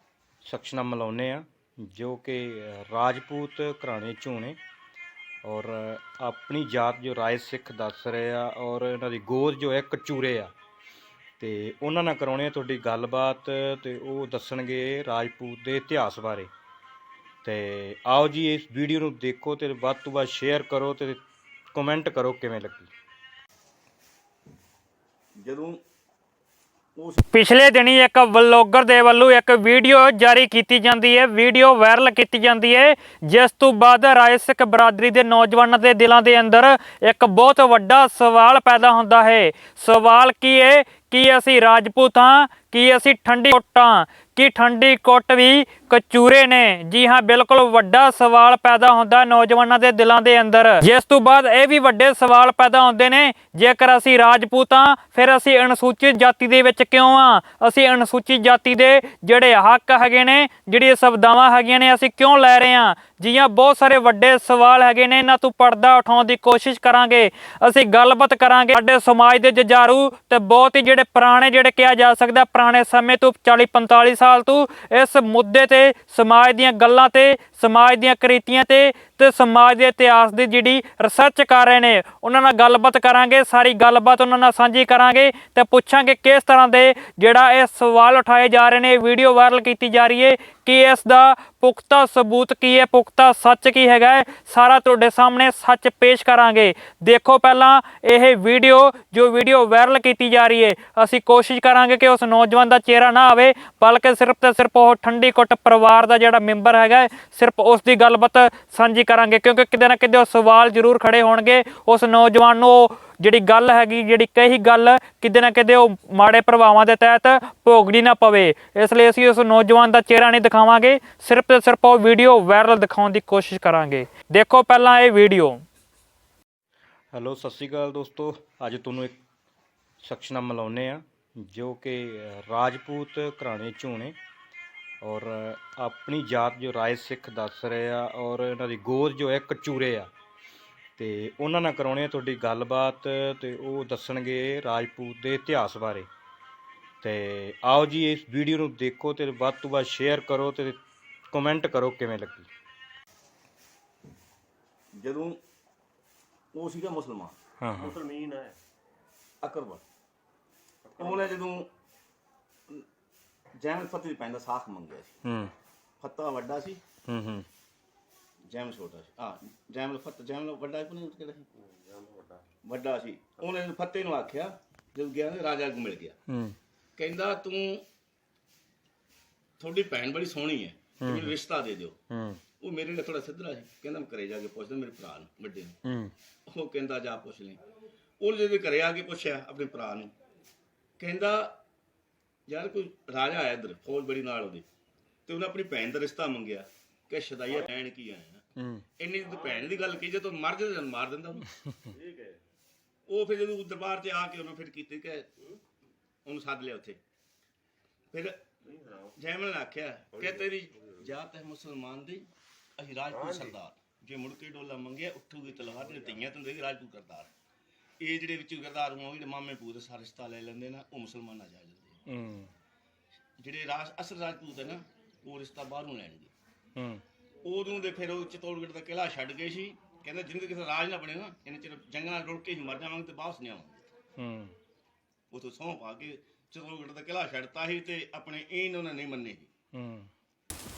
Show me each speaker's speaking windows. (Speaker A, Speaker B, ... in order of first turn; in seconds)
Speaker A: 0.4-4.6, 5.4-10.5, 11.4-16.5, 17.4-21.2, 21.7-22.9, 127.1-129.2, 130.0-134.2, 135.0-140.1, 141.0-146.1, 147.0-150.8, 151.3-152.5, 157.6-158.0, 165.2-165.5, 167.1-167.4, 176.3-176.6, 181.0-181.4, 182.1-182.4, 185.8-186.1, 198.6-198.8, 222.1-222.5, 226.8-227.0, 234.2-234.5, 239.7-240.1
Speaker B: 25.4-25.8, 27.0-27.2, 155.0-155.4, 156.5-157.3, 159.4-159.8, 161.0-161.7, 163.6-165.2, 166.0-166.8, 168.5-171.5, 172.6-176.2, 177.0-177.8, 179.6-181.9, 182.6-185.8, 186.5-187.6, 188.2-190.1, 191.0-191.6, 192.5-194.7, 195.3-198.4, 199.0-201.4, 203.1-205.3, 206.2-207.0, 208.1-208.5, 209.1-217.3, 218.0-221.9, 223.4-226.3, 227.4-233.9, 235.3-239.5
Speaker C: 27.3-125.6
Speaker D: 157.8-158.6, 160.9-161.3, 171.7-172.4, 199.3-199.8, 201.9-202.4, 208.8-209.1, 210.1-210.4, 213.2-213.5